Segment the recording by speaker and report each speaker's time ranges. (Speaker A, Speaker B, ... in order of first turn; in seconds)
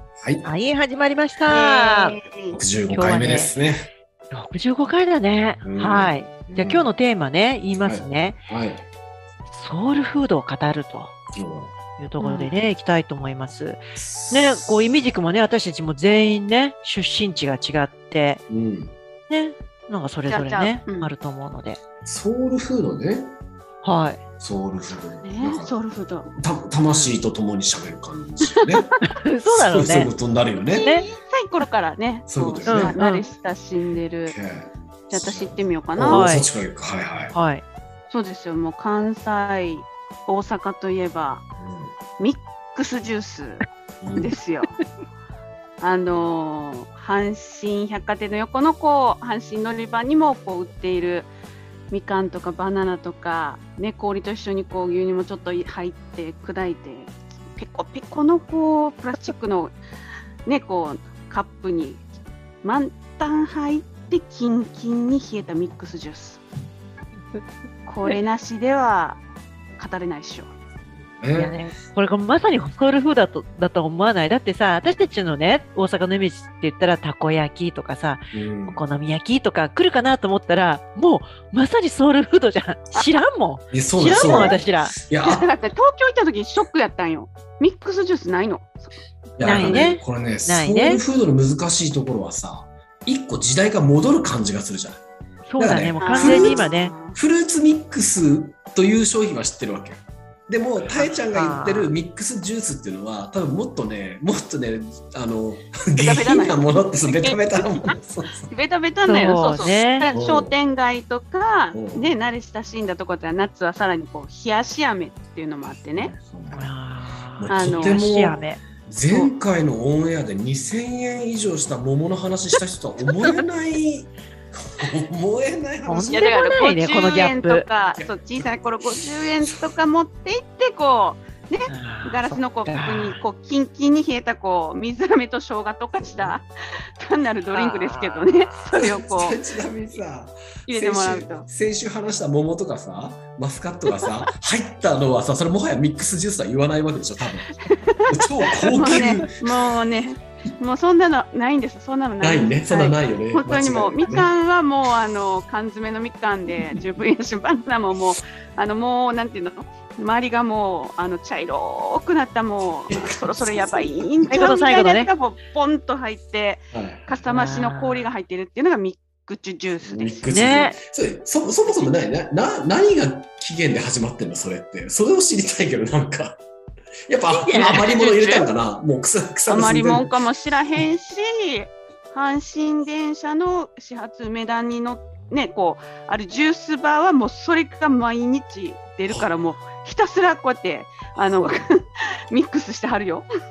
Speaker A: 0.2-0.5, 2.5-3.9, 5.6-6.9, 7.8-8.8, 11.3-11.7, 14.0-14.6, 18.5-18.9, 22.0-23.3, 24.4-25.7, 26.4-28.9, 29.5-30.9, 32.3-32.9, 34.3-37.3, 41.6-41.9, 44.0-44.3, 71.2-71.6, 78.3-78.8, 83.7-85.5, 89.4-95.0, 95.6-108.5, 110.1-110.5, 111.7-112.1, 115.9-116.7, 117.4-126.3, 127.9-128.5, 136.0-136.3, 138.7-149.3, 152.2-154.3, 162.9-164.1, 166.7-167.1, 169.8-176.4, 177.1-180.1
Speaker B: 0.4-2.2, 2.9-3.5, 4.3-8.4, 9.5-11.1, 12.0-18.4, 19.3-21.8, 23.8-24.2, 26.9-27.2, 29.0-30.1, 30.8-31.1, 32.6-33.3, 36.1-36.5, 37.3-37.6, 71.3-85.0, 89.4-91.0, 95.5-96.9, 100.8-101.9, 109.0-110.1, 116.5-118.6, 125.8-127.7, 131.7-133.2, 137.5-138.7, 164.3-165.1, 167.3-168.1, 170.2-170.8, 177.3-178.3
Speaker C: 1.5-2.6, 12.2-12.5, 20.3-21.1, 25.2-26.3, 30.7-34.3, 35.1-36.3, 38.1-41.4, 42.2-43.6, 44.2-44.8, 45.8-51.3, 51.9-59.8, 60.5-62.0, 62.6-66.4, 67.8-69.2, 69.8-70.5, 84.1-84.6, 85.2-88.9, 89.4-89.9, 96.0-97.2, 106.0-107.9, 108.5-116.1, 117.5-118.0, 123.0-123.4, 126.0-139.4, 140.7-141.5, 147.6-148.1, 148.7-170.7, 178.2-178.4, 179.5-191.8, 192.3-193.3